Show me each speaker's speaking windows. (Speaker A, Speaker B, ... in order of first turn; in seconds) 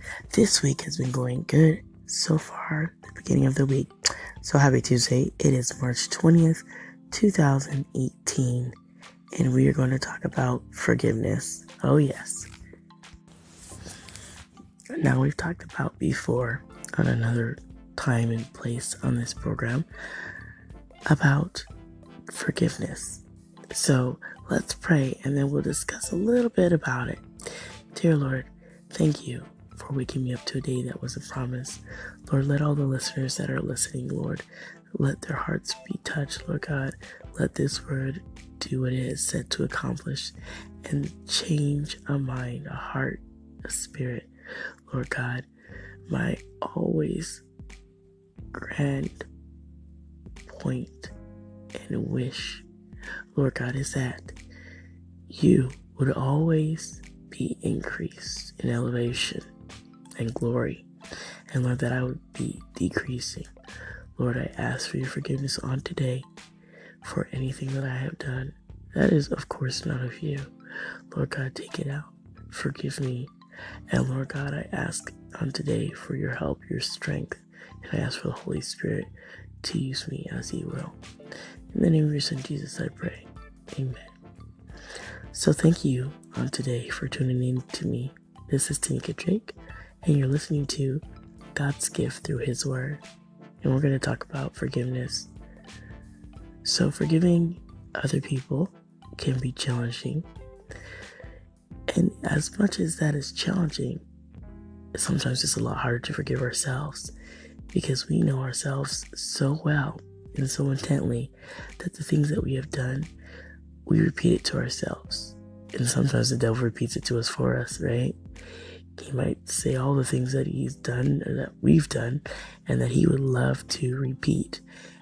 Speaker A: 0.3-3.9, 4.4-8.7, 9.4-12.5, 14.9-19.9, 21.1-21.7, 22.3-27.2, 27.9-34.5, 35.0-40.3, 40.9-44.3, 44.9-45.5, 46.1-47.4, 48.5-49.3, 50.5-51.1, 51.8-52.7, 53.4-54.4, 55.3-59.5, 60.2-60.9, 61.5-63.5, 64.2-66.3, 67.0-70.5, 71.1-73.3, 73.9-81.0, 81.7-84.2, 85.3-91.0, 91.5-93.0, 93.6-95.3, 96.6-100.3, 101.9-104.0, 105.0-107.1, 107.7-113.1, 113.9-118.2, 119.0-124.6